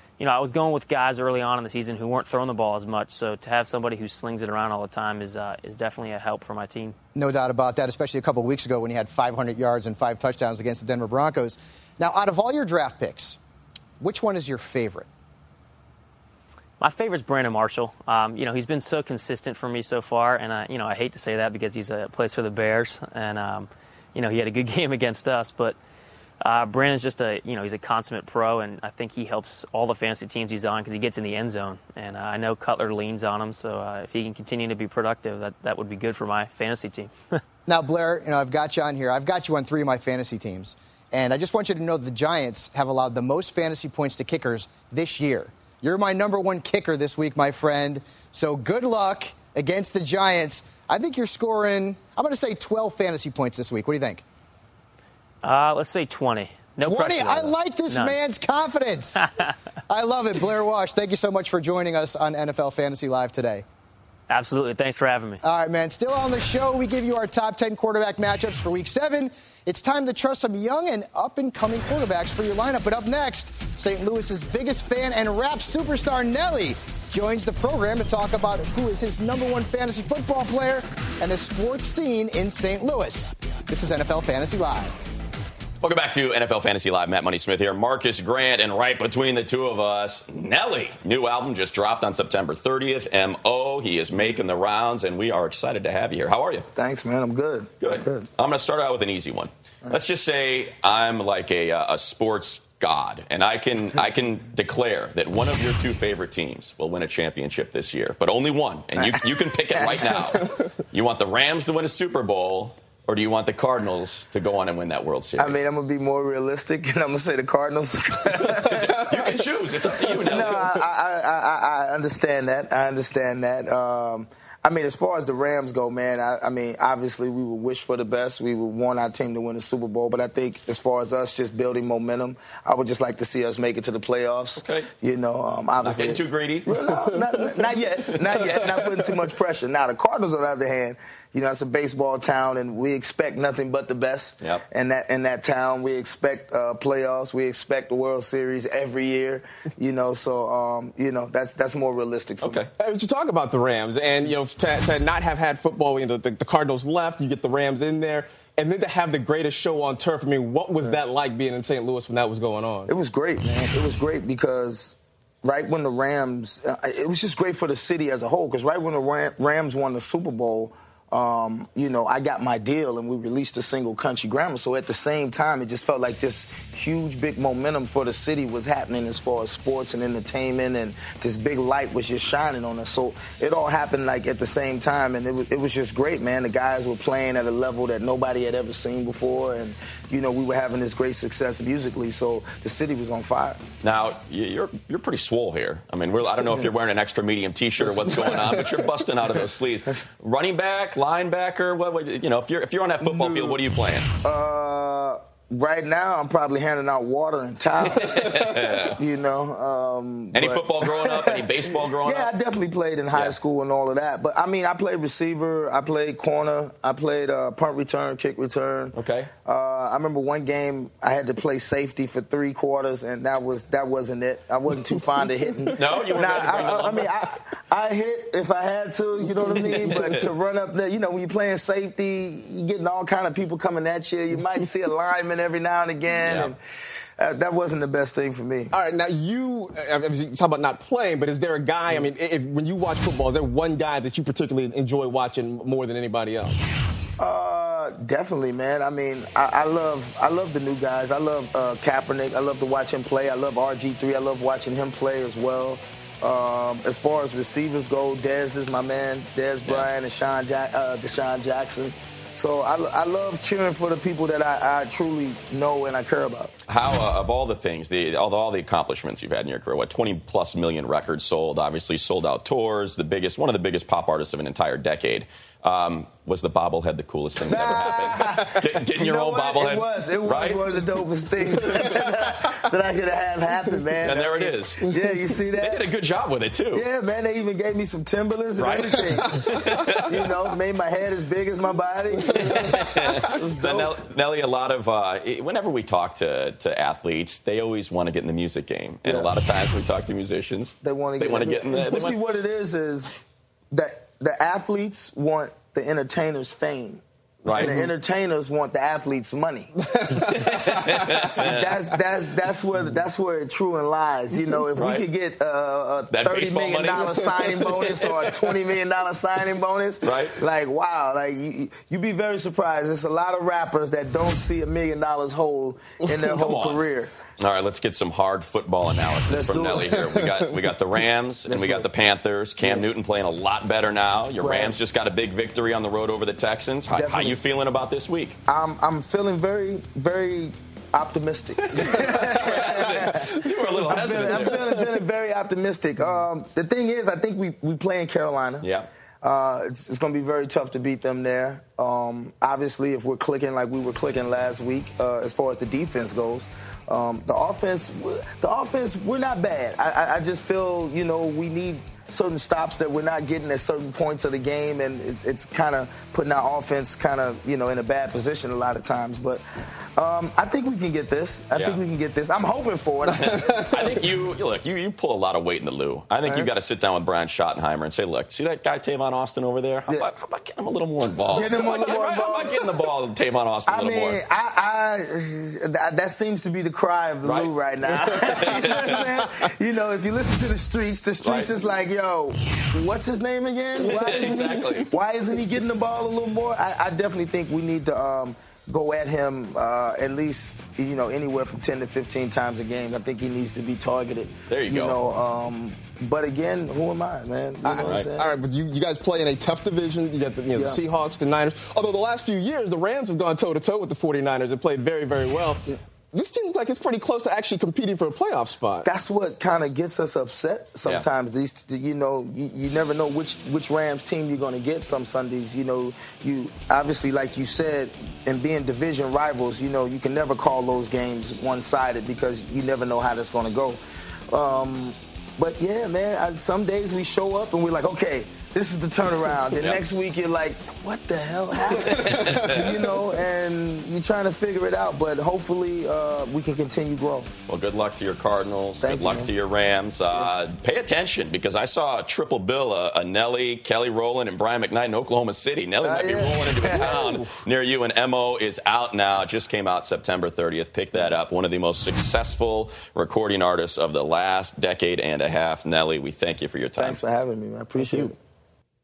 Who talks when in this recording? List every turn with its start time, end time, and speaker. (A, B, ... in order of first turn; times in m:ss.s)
0:00.2-0:06.9 A
0:07.1-0:13.4 B
0:14.0-0:15.1 B
0:16.8-0:25.8 A
0:26.4-0:37.1 A
0:37.7-0:54.2 B
0:55.4-0:58.2 A
0:56.8-0:59.2 B
0:59.9-1:03.6 B
1:04.3-1:05.4 A
1:05.4-1:25.0 B
1:25.8-1:36.7 C
1:36.7-1:38.3 D
1:37.8-1:55.6 C
1:49.0-1:50.4 D
1:55.4-1:59.4 D
1:58.4-2:00.7 C
2:00.2-2:32.6 D
2:14.6-2:14.9 C
2:15.8-2:16.7 C
2:32.4-2:32.7 C
2:32.8-2:42.9 E
2:42.9-3:13.6 D
3:13.8-3:24.1 C
3:17.9-3:18.6 D
3:23.0-3:23.6 D
3:24.2-3:28.4 D
3:27.9-3:29.0 C
3:29.0-3:56.6 D
3:30.3-3:32.3 C
3:38.9-3:39.3 C
3:45.7-3:47.1 C
3:49.6-3:50.2 C
3:56.2-3:56.5 C
3:57.2-3:58.7 D
3:58.7-4:06.6 E
4:07.2-4:26.5 D
4:26.7-4:40.7 C
4:37.4-4:45.9 D
4:44.0-4:44.9 C
4:45.6-4:46.9 C
4:46.7-4:54.0 D
4:48.6-4:50.3 C
4:52.3-5:02.2 C
4:59.0-4:59.3 D
5:00.8-5:03.1 D
5:03.7-5:27.1 D
5:07.4-5:07.8 C
5:07.6-5:07.9 E
5:10.2-5:11.8 C
5:14.8-5:15.1 C
5:16.1-5:18.0 C
5:20.0-5:20.4 C
5:26.3-5:26.8 C
5:27.4-5:38.4 C
5:29.3-5:30.1 D
5:31.4-5:31.9 D
5:32.6-5:32.9 D
5:34.4-5:34.7 D
5:36.9-5:37.4 D
5:38.5-5:48.7 D
5:41.7-5:44.8 C
5:48.6-5:48.9 C
5:49.2-6:09.4 D
6:10.0-6:13.9 D
6:11.5-6:11.8 C
6:13.1-6:24.2 C
6:16.2-6:16.5 D
6:21.3-6:22.8 D
6:23.7-6:48.3 D
6:27.2-6:27.5 C
6:28.1-6:29.0 C
6:31.2-6:31.5 C
6:33.8-6:34.9 C
6:44.5-6:45.0 C
6:47.6-6:58.9 E
6:47.8-6:48.1 C
6:50.5-6:50.8 D
6:58.8-7:13.8 D
7:14.3-7:27.3 D
7:19.6-7:19.8 C
7:21.7-7:22.7 C
7:27.5-7:47.0 C
7:28.8-7:29.3 D
7:35.8-7:37.3 D
7:46.8-7:48.2 D